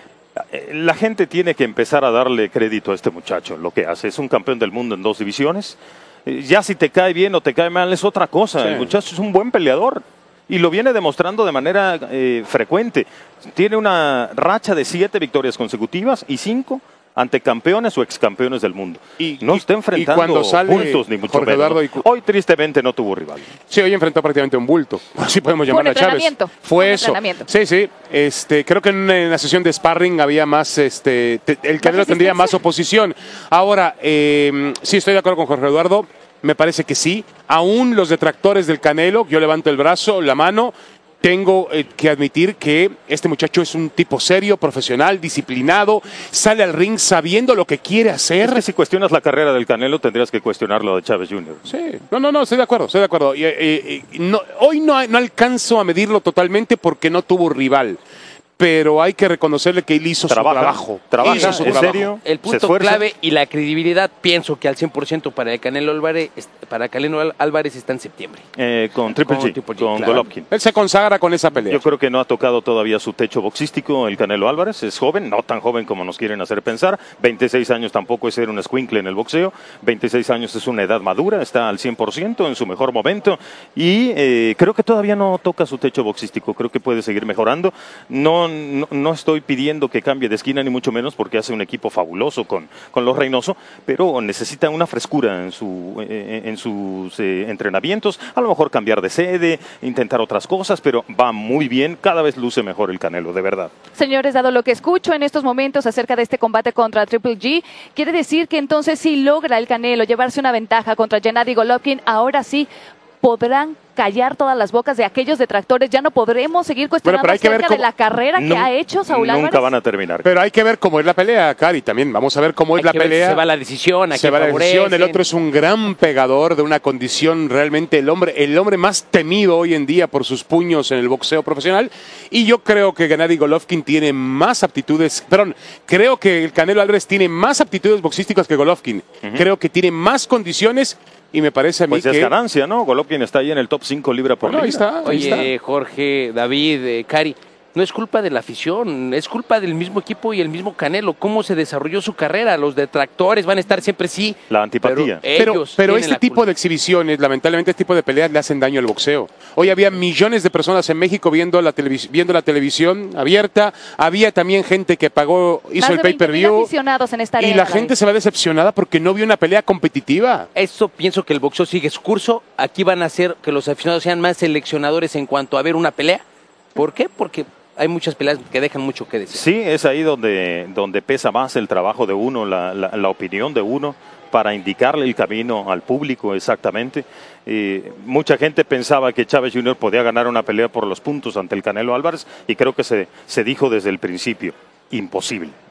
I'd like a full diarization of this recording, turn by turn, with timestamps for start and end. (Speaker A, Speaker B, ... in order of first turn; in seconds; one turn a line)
Speaker A: 0.5-23.6
Speaker B: 8.6-8.9
Speaker B: 19.2-22.0
Speaker B: 23.6-48.6
Speaker C: 25.7-27.5
Speaker C: 31.8-32.6
Speaker A: 48.4-51.6
Speaker B: 51.7-58.0
Speaker B: 58.6-62.1
Speaker A: 60.3-63.0
Speaker D: 61.2-68.4
Speaker A: 68.5-70.5
Speaker D: 69.1-70.3
Speaker B: 70.5-71.8
Speaker A: 71.7-103.7
Speaker C: 103.9-112.7
Speaker C: 113.2-119.7
Speaker B: 117.0-117.8
Speaker A: 118.3-120.3
Speaker B: 120.2-123.4
Speaker D: 122.8-125.2
Speaker B: 124.1-142.3
Speaker A: 141.9-145.5
Speaker B: 144.4-145.5
Speaker D: 145.0-156.4
Speaker A: 154.5-155.3
Speaker B: 155.3-166.7
Speaker C: 165.8-167.9
Speaker B: 167.4-170.5
Speaker D: 170.6-176.2
Speaker D: 176.8-179.4
Speaker A: 179.3-195.5